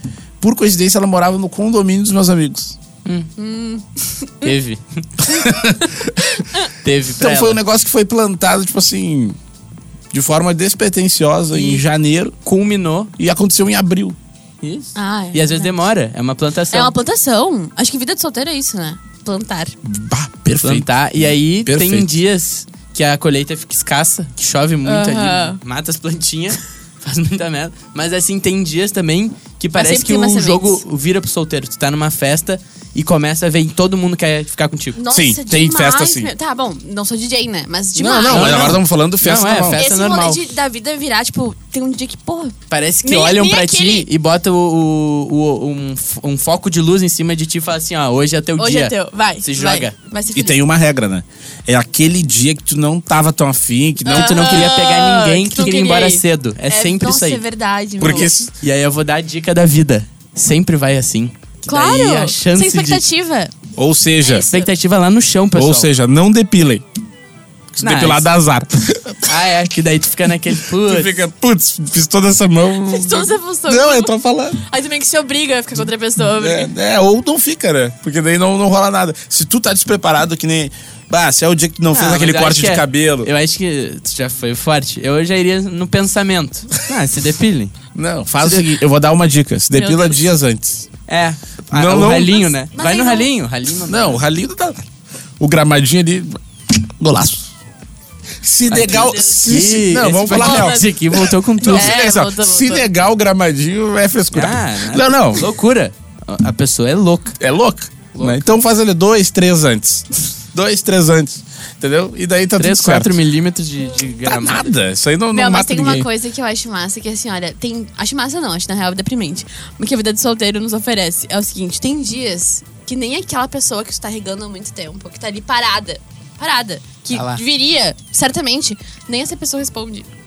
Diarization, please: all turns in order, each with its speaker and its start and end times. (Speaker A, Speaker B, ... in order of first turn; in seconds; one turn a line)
Speaker A: 0.4-2.8
Speaker B: 3.0-3.3
Speaker C: 3.4-4.5
Speaker B: 4.4-5.2
Speaker A: 5.2-6.0
Speaker B: 6.8-7.6
Speaker A: 7.2-9.4
Speaker A: 10.1-12.4
Speaker B: 11.5-11.8
Speaker B: 12.4-13.1
Speaker A: 13.2-14.2
Speaker B: 14.6-16.9
Speaker C: 14.9-15.8
Speaker C: 16.7-19.7
Speaker A: 19.8-20.9
Speaker B: 20.6-35.0
Speaker A: 21.6-22.1
Speaker C: 24.9-25.6
Speaker C: 29.7-30.8
Speaker C: 34.9-38.8
Speaker A: 35.1-36.3
Speaker A: 38.0-39.9
Speaker B: 38.2-40.4
Speaker C: 39.8-44.1
Speaker B: 42.7-50.0
Speaker C: 48.6-50.6
Speaker A: 50.3-54.7
Speaker B: 54.0-57.4
Speaker C: 54.0-58.3
Speaker A: 58.0-58.5
Speaker B: 58.6-63.0
Speaker C: 61.7-63.5
Speaker A: 63.8-64.5
Speaker C: 64.2-64.7
Speaker B: 64.4-65.9
Speaker A: 65.5-66.8
Speaker A: 67.7-69.3
Speaker B: 67.8-68.3
Speaker B: 69.2-71.2
Speaker A: 70.8-74.6
Speaker C: 72.9-74.1
Speaker C: 74.6-76.7
Speaker A: 76.2-83.3
Speaker B: 81.9-87.7
Speaker A: 87.9-90.9
Speaker B: 88.4-88.7
Speaker C: 89.7-90.2
Speaker B: 91.1-94.2
Speaker A: 91.7-92.4
Speaker C: 92.3-93.3
Speaker A: 93.9-94.9
Speaker A: 95.4-97.5
Speaker A: 98.4-100.8
Speaker B: 98.7-102.0
Speaker C: 98.9-102.9
Speaker A: 101.6-105.5
Speaker B: 104.3-107.4
Speaker A: 107.4-113.2
Speaker B: 108.1-108.4
Speaker B: 112.6-114.7
Speaker A: 114.2-116.1
Speaker C: 115.3-130.1
Speaker B: 127.1-127.4